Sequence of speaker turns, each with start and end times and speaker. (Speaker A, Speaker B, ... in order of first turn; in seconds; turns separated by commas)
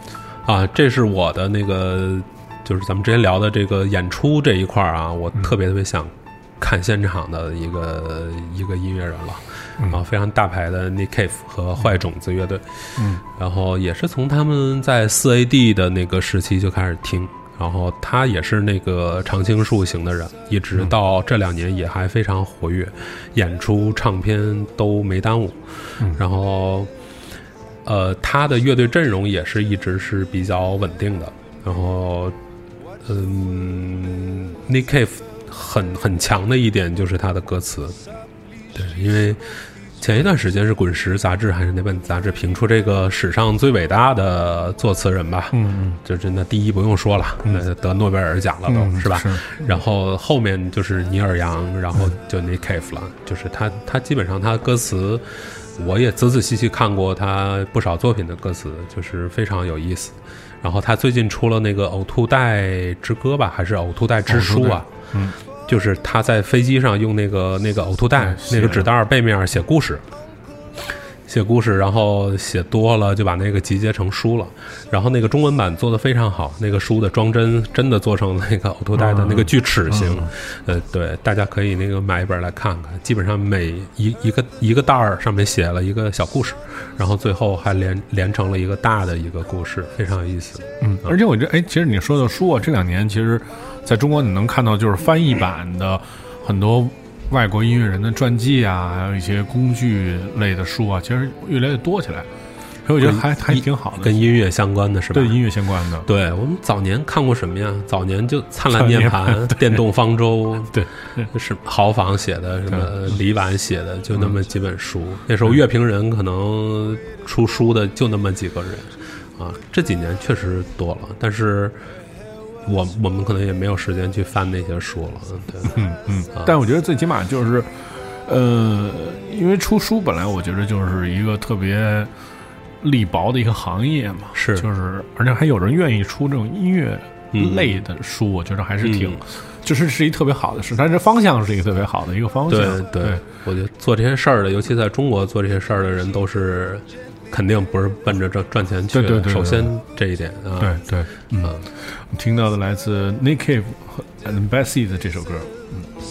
Speaker A: 0.4-26.9, Speaker B: 13.0-13.2, Speaker A: 27.8-32.4, Speaker A: 33.0-38.0, Speaker A: 38.7-64.9, Speaker B: 45.5-46.0, Speaker B: 48.7-49.8, Speaker B: 64.2-65.3, Speaker A: 65.7-70.0, Speaker B: 68.2-68.9, Speaker A: 71.3-91.1, Speaker B: 79.0-80.3, Speaker B: 90.8-102.3, Speaker B: 102.8-104.2, Speaker A: 103.0-105.4, Speaker B: 105.1-106.0, Speaker A: 106.0-110.8, Speaker B: 108.7-109.8, Speaker B: 110.7-111.3, Speaker A: 111.3-121.8, Speaker A: 122.6-125.7, Speaker B: 125.7-127.7, Speaker B: 128.2-132.1, Speaker B: 132.8-143.2, Speaker A: 134.3-134.7, Speaker A: 137.3-137.8, Speaker A: 138.8-139.2, Speaker A: 142.5-150.8, Speaker B: 148.9-149.7, Speaker B: 150.6-155.9